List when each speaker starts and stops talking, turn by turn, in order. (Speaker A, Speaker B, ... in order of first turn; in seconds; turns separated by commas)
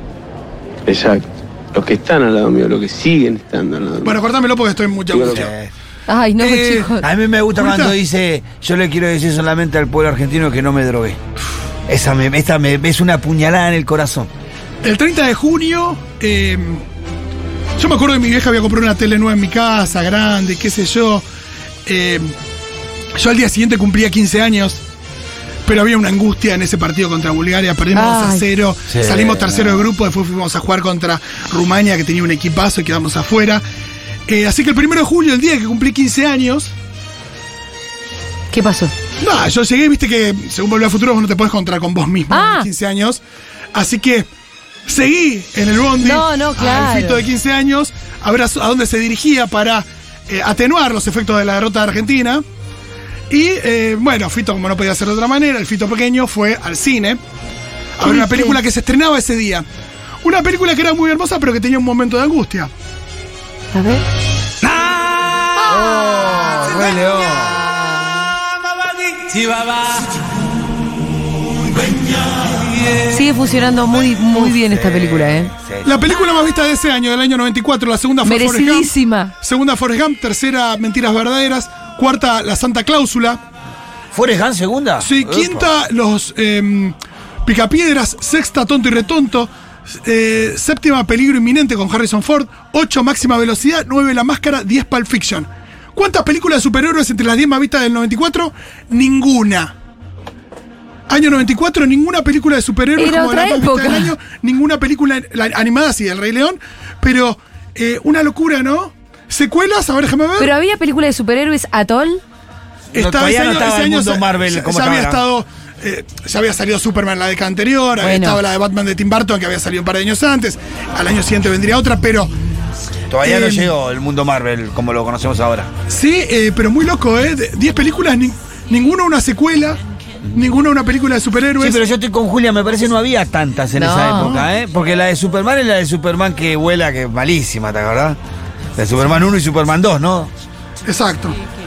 Speaker A: 0.8-4.2, Speaker B: 4.0-5.5, Speaker A: 5.1-5.5, Speaker C: 5.2-5.7, Speaker D: 6.1-7.0, Speaker B: 6.4-6.9, Speaker C: 7.0-11.2, Speaker B: 7.5-7.9, Speaker C: 11.9-14.3, Speaker B: 14.8-16.8, Speaker B: 17.8-21.2, Speaker B: 21.9-22.3, Speaker B: 23.2-24.8, Speaker B: 25.6-33.6, Speaker D: 27.9-28.4, Speaker C: 28.9-29.9, Speaker B: 34.3-36.7, Speaker D: 38.5-38.9, Speaker B: 39.2-43.2, Speaker D: 42.3-42.7, Speaker B: 43.7-44.3, Speaker B: 44.9-52.4, Speaker D: 46.0-47.2, Speaker B: 53.3-57.2, Speaker B: 58.0-59.6, Speaker D: 58.0-58.6, Speaker B: 60.2-62.7, Speaker D: 63.7-64.0, Speaker C: 64.6-67.7, Speaker D: 65.6-65.9, Speaker C: 69.1-70.1, Speaker D: 73.0-75.5, Speaker C: 74.4-75.9, Speaker B: 75.8-83.4, Speaker D: 78.2-79.3, Speaker C: 84.1-85.7, Speaker B: 85.0-89.5, Speaker B: 90.0-99.7, Speaker B: 101.1-110.5, Speaker D: 103.0-104.1, Speaker D: 110.4-112.2, Speaker B: 112.9-122.3, Speaker C: 112.9-115.2, Speaker D: 118.0-118.4, Speaker C: 123.1-125.7, Speaker B: 123.2-123.7, Speaker B: 125.9-129.8, Speaker B: 130.3-131.8, Speaker C: 131.6-138.2, Speaker D: 133.7-134.3, Speaker B: 134.2-134.5, Speaker C: 138.8-140.3, Speaker B: 140.8-141.4